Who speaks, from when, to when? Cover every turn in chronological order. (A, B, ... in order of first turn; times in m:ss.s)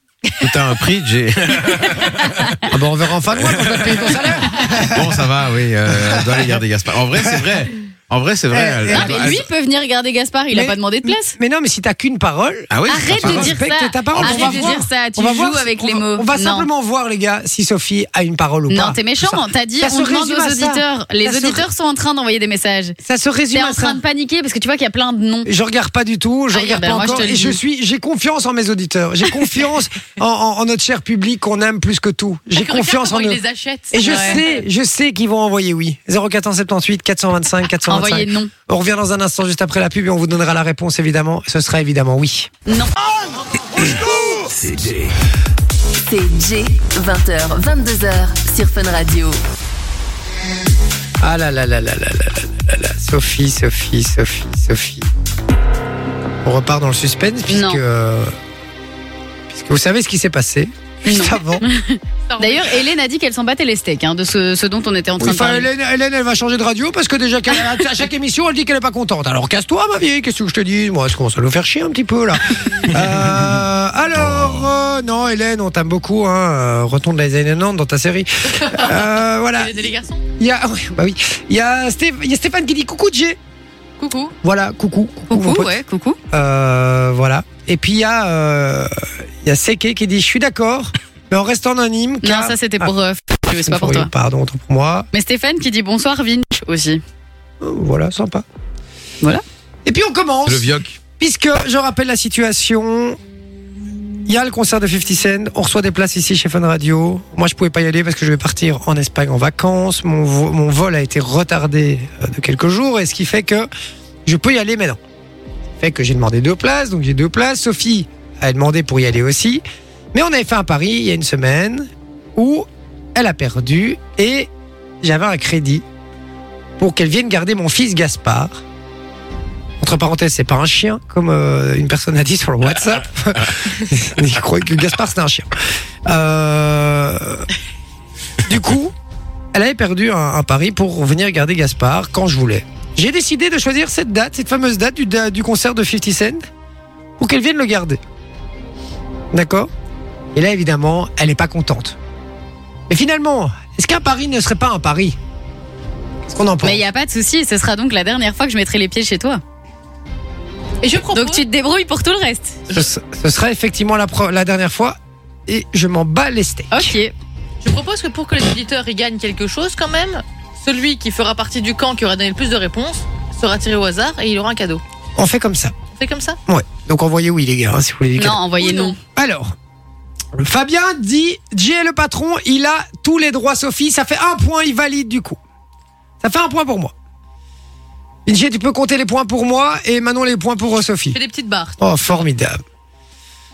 0:00.4-0:02.5 A
0:02.2-0:02.6 B
0:02.7-0:05.2 C
0:03.3-0:04.3 A
0:04.9-0:09.4 A
0:05.9-0:06.6 C
0:08.5-0:09.4 C
0:08.9-0:11.3 B
0:10.5-0:21.7 C
0:12.7-0:13.6 A
0:12.9-0:16.7 B
0:14.1-0:14.5 A
0:18.7-0:23.0 B
0:23.0-0:24.0 C
0:23.5-0:25.5 B
0:25.4-0:42.5 C
0:26.5-0:27.3 D
0:26.7-0:27.6 B
0:32.5-0:34.6 D
0:34.0-0:34.4 B
0:37.9-0:38.5 B
0:42.7-0:42.9 B
0:46.1-0:49.4 E
0:51.2-0:55.1 C
0:56.4-0:58.3 C
0:57.5-0:57.8 B
0:59.5-1:01.7 C
1:01.1-1:05.7 B
1:02.3-1:02.8 D
1:05.2-1:19.9 C
1:18.5-1:20.2 D
1:20.4-1:23.4 C
1:24.0-1:24.3 D
1:24.4-1:25.8 C
1:25.3-1:26.2 B
1:26.3-1:32.9 C
1:32.2-1:34.1 B
1:33.6-1:35.1 C
1:35.1-1:37.0 B
1:37.6-1:38.4 C
1:39.9-1:43.2 C
1:40.4-1:40.9 A
1:44.2-1:53.7 C
1:54.2-1:55.0 C
1:55.8-1:59.6 C
2:00.1-2:04.5 C
2:05.0-2:05.8 C
2:06.8-2:08.6 C
2:09.8-2:15.5 C
2:16.1-2:17.5 C
2:18.4-2:18.9 C
2:19.5-2:26.4 C
2:27.2-2:28.0 C
2:29.3-2:29.7 C
2:30.3-2:32.0 C
2:32.9-2:35.2 C
2:36.3-2:36.8 C
2:36.6-2:39.4 B
2:40.8-2:41.4 D
2:41.1-2:42.6 B
2:42.7-2:46.9 C
2:46.7-2:47.2 B
2:47.6-2:54.8 D
2:55.2-2:55.7 C
2:56.0-2:56.4 D
2:56.5-2:58.5 C
2:58.2-2:59.0 B
2:58.6-2:59.0 D
2:59.2-2:59.5 C
3:00.4-3:05.4 C
3:06.2-3:06.9 C
3:08.3-3:11.2 C
3:11.1-3:11.8 D
3:11.8-3:12.6 C